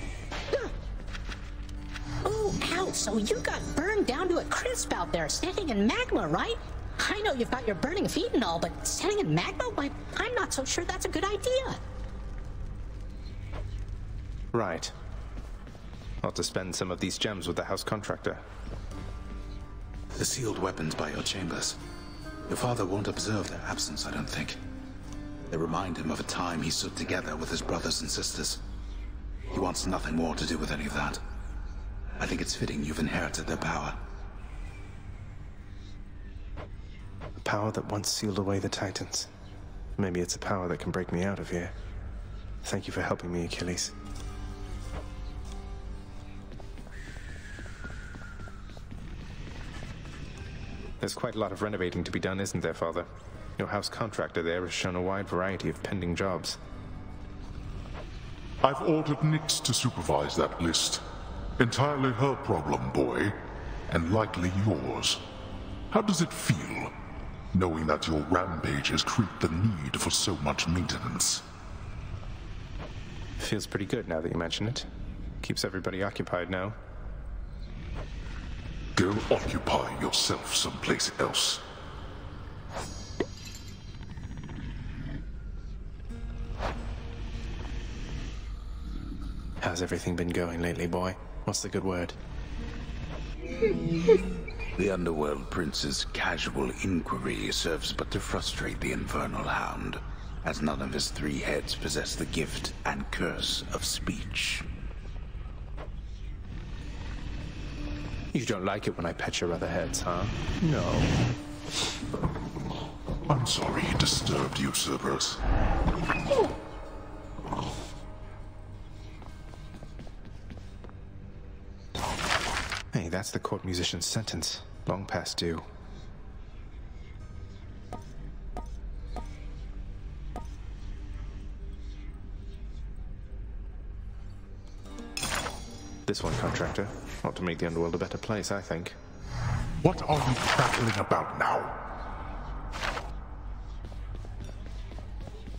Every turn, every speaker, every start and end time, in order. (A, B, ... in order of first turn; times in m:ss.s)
0:02.2-0:11.8 A
0:14.5-0:14.9 B
0:16.2-0:18.4 B
0:20.1-0:21.8 C
0:22.5-0:24.6 C
0:25.5-0:28.6 C
0:29.5-0:31.2 C
0:32.2-0:34.0 C
0:37.4-0:39.3 B
0:40.0-0:41.7 B
0:42.6-0:44.0 B
0:51.0-0:56.6 B
0:58.6-1:01.0 D
1:01.6-1:03.4 D
1:03.9-1:05.2 D
1:05.9-1:06.9 D
1:07.5-1:11.4 D
1:13.4-1:14.9 B
1:15.4-1:16.8 B
1:19.0-1:21.6 D
1:29.6-1:32.2 B
1:34.8-1:44.7 C
1:48.3-1:51.1 B
1:53.3-1:55.4 D
2:02.9-2:05.7 B
2:16.1-2:19.0 B
2:19.8-2:21.8 D